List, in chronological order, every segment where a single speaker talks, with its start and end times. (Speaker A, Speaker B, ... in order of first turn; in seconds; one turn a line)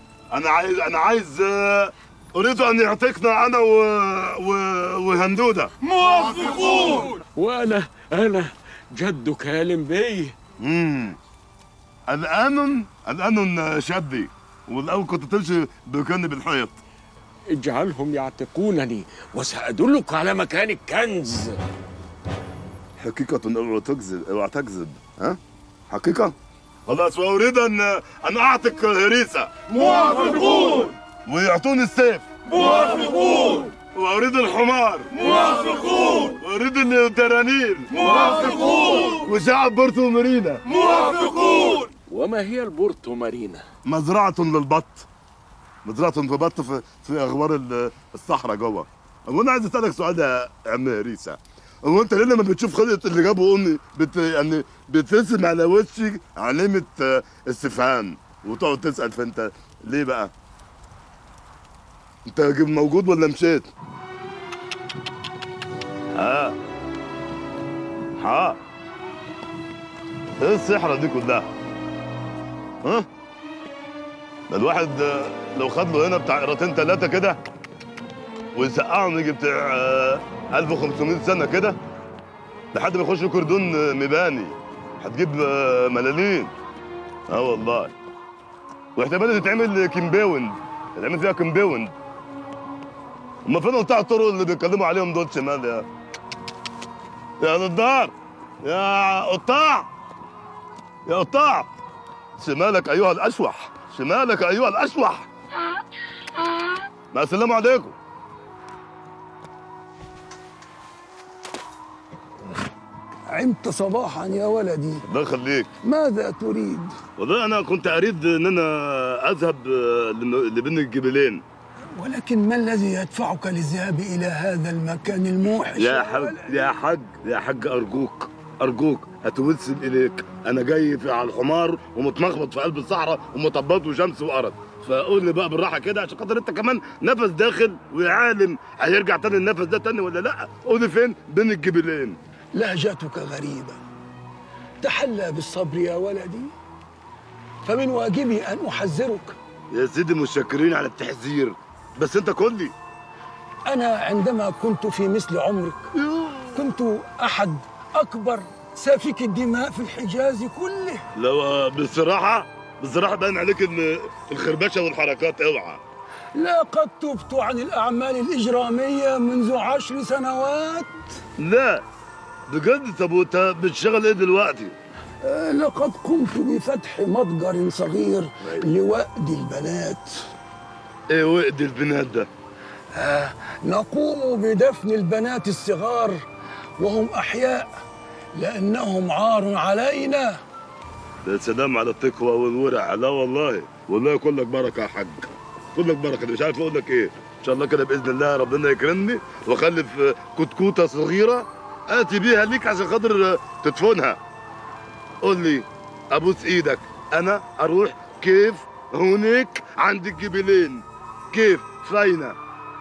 Speaker A: 0.3-5.7
Speaker B: 5.9-7.1
Speaker C: 6.5-10.3
Speaker A: 10.6-11.2
Speaker A: 12.1-16.8
Speaker C: 17.6-21.6
Speaker A: 23.0-25.4
Speaker A: 25.9-26.4
Speaker A: 26.9-29.5
Speaker B: 29.8-30.5
Speaker A: 31.3-32.3
Speaker B: 32.6-33.1
Speaker A: 33.8-35.1
Speaker A: 36.3-38.1
Speaker A: 39.2-40.6
Speaker C: 42.1-43.6
Speaker A: 43.9-45.1
Speaker A: 45.9-60.3
Speaker A: 62.3-63.7
Speaker A: 66.2-66.5
Speaker A: 68.2-68.6
Speaker A: 70.4-71.5
Speaker A: 74.5-77.4
Speaker A: 78.5-81.8
Speaker A: 82.7-86.5
Speaker A: 87.3-87.9
Speaker A: 89.0-91.9
Speaker A: 93.5-95.9
Speaker A: 97.4-99.9
Speaker A: 101.1-101.7
Speaker A: 102.4-105.3
Speaker A: 107.1-108.0
Speaker D: 113.3-115.0
Speaker A: 115.1-115.7
Speaker D: 115.8-117.0
Speaker A: 117.2-121.4
Speaker D: 122.0-126.5
Speaker A: 125.8-142.2
Speaker D: 142.6-143.8
Speaker D: 144.8-146.5
Speaker D: 147.7-149.4
Speaker A: 149.7-152.7
Speaker D: 153.7-155.9
Speaker A: 156.0-156.6
Speaker D: 156.5-161.0
Speaker A: 161.2-165.8
Speaker D: 166.4-170.9
Speaker A: 171.4-171.8
Speaker A: 172.5-174.7
Speaker D: 175.2-180.1
Speaker A: 178.4-178.7
Speaker A: 181.1-182.3
Speaker D: 183.0-186.2
Speaker D: 186.8-187.7
Speaker D: 188.4-190.4
Speaker A: 191.2-204.2
Speaker A: 205.2-212.4